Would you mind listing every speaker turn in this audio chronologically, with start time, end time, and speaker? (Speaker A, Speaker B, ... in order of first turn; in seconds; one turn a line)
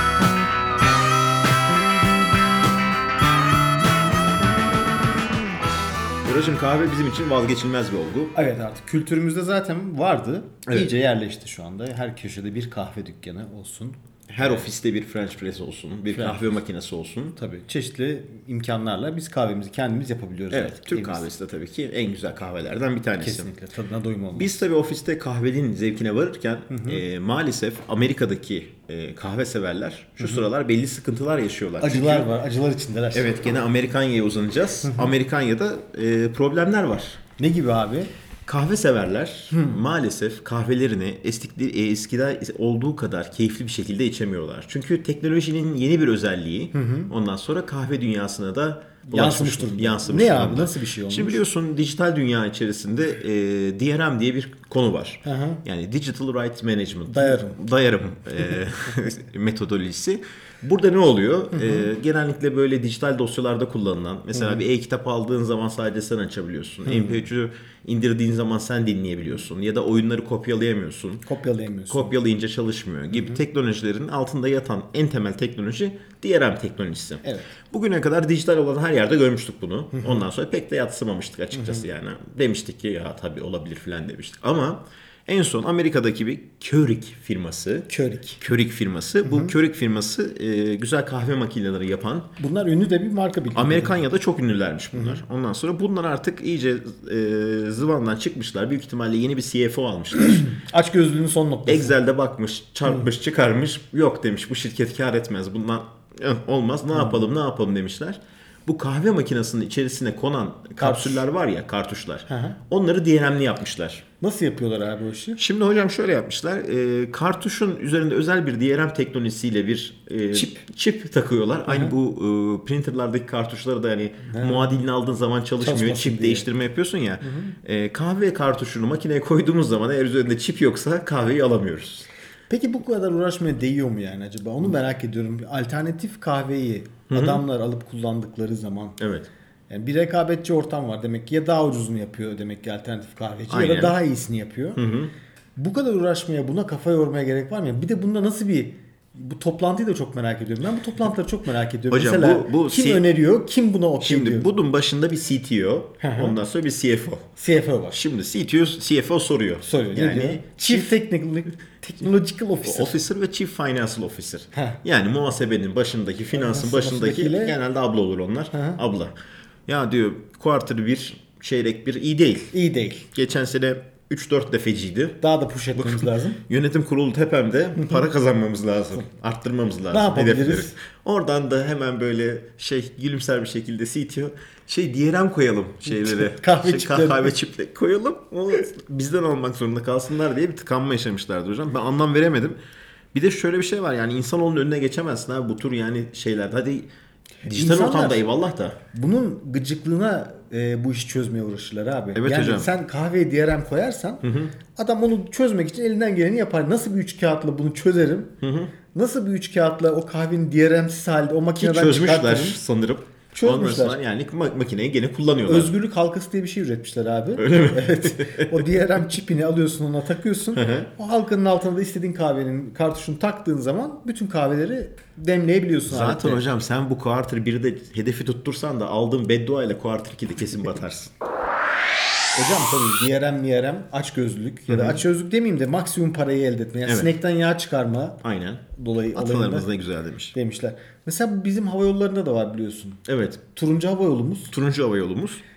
Speaker A: 6.2-8.3
Speaker B: 8.3-14.7
Speaker A: 14.3-17.4
Speaker B: 16.1-16.4
Speaker B: 17.4-21.3
Speaker A: 20.5-23.5
Speaker B: 23.2-24.6
Speaker A: 24.3-32.3
Speaker B: 26.7-27.0
Speaker B: 31.8-33.3
Speaker A: 33.1-37.2
Speaker B: 37.4-38.1
Speaker A: 38.5-71.2
Speaker B: 39.5-39.8
Speaker B: 46.7-47.1
Speaker B: 49.1-51.4
Speaker B: 55.2-55.6
Speaker B: 57.1-57.6
Speaker B: 61.5-61.9
Speaker B: 64.3-64.6
Speaker B: 66.8-67.2
Speaker B: 71.2-72.1
Speaker A: 71.9-92.3
Speaker B: 73.1-73.4
Speaker B: 77.2-77.5
Speaker B: 79.9-80.2
Speaker B: 81.5-81.8
Speaker B: 87.9-88.4
Speaker B: 89.2-89.5
Speaker B: 92.4-94.0
Speaker A: 93.5-100.5
Speaker B: 94.9-95.2
Speaker B: 100.3-102.0
Speaker A: 101.7-114.0
Speaker B: 106.9-107.2
Speaker B: 110.8-111.2
Speaker B: 112.3-112.6
Speaker B: 114.2-115.4
Speaker A: 115.4-132.1
Speaker B: 120.3-120.6
Speaker B: 121.7-121.9
Speaker B: 124.2-124.7
Speaker B: 125.6-126.4
Speaker B: 127.2-127.5
Speaker B: 132.5-139.0
Speaker A: 137.1-137.4
Speaker A: 139.0-139.3
Speaker B: 139.7-144.8
Speaker A: 143.5-143.9
Speaker A: 144.7-145.1
Speaker B: 145.6-154.5
Speaker A: 151.9-153.0
Speaker A: 154.0-157.2
Speaker B: 156.0-156.4
Speaker B: 157.4-158.0
Speaker A: 157.9-160.9
Speaker B: 159.6-163.0
Speaker A: 162.6-169.1
Speaker B: 164.5-164.8
Speaker B: 166.3-167.5
Speaker B: 168.5-168.8
Speaker A: 169.7-172.5
Speaker B: 172.5-173.0
Speaker A: 173.1-175.2
Speaker B: 175.2-176.4
Speaker A: 175.7-192.6
Speaker B: 179.9-180.7
Speaker B: 185.9-187.3
Speaker A: 193.1-196.9
Speaker A: 197.4-198.8
Speaker B: 197.5-198.2
Speaker B: 198.9-208.3
Speaker A: 202.1-202.7
Speaker A: 204.2-204.5
Speaker A: 208.4-208.7
Speaker B: 208.9-212.6
Speaker A: 211.6-215.7
Speaker B: 213.3-214.0
Speaker B: 215.4-226.4
Speaker A: 217.4-218.6
Speaker A: 220.5-220.9
Speaker A: 225.9-231.1
Speaker B: 232.3-238.2
Speaker A: 234.7-235.0
Speaker A: 236.8-237.1
Speaker A: 238.2-240.3
Speaker B: 238.7-239.7
Speaker B: 240.3-243.0
Speaker A: 243.1-243.4
Speaker B: 243.5-244.5
Speaker A: 244.5-245.4